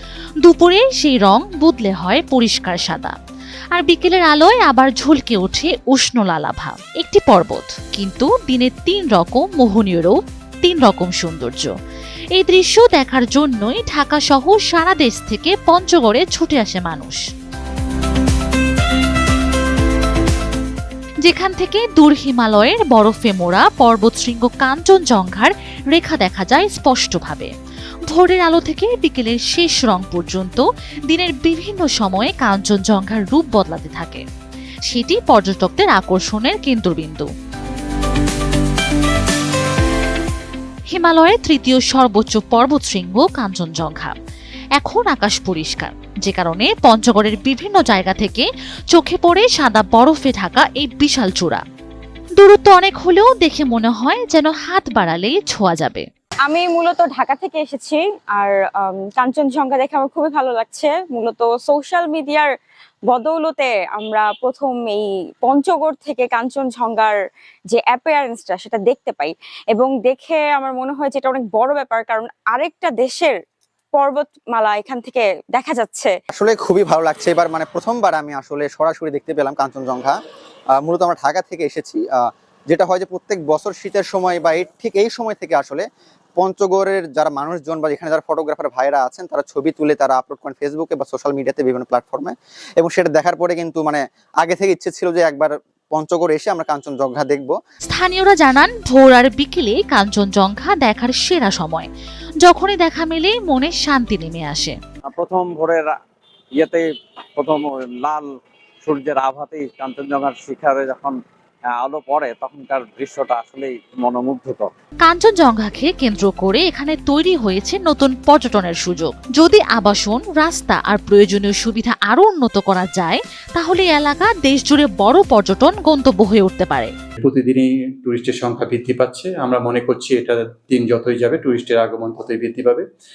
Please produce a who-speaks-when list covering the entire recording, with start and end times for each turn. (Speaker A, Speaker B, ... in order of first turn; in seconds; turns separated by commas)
Speaker A: 0.4-3.2, Speaker A: 3.7-11.7, Speaker A: 12.3-17.2, Speaker A: 21.2-27.5, Speaker A: 28.1-34.2, Speaker A: 34.9-37.3, Speaker A: 40.9-44.1, Speaker A: 44.8-51.6, Speaker A: 52.4-56.1, Speaker B: 56.5-62.5, Speaker B: 63.1-67.2, Speaker B: 67.7-73.4, Speaker B: 73.9-76.1, Speaker C: 76.3-80.2, Speaker C: 80.8-85.8, Speaker C: 86.4-97.5, Speaker A: 97.9-101.9, Speaker A: 102.4-104.8, Speaker D: 105.1-106.0, Speaker D: 106.5-106.8, Speaker D: 107.4-108.3, Speaker D: 108.8-111.2, Speaker D: 111.7-114.7, Speaker A: 115.0-126.9, Speaker E: 127.2-132.8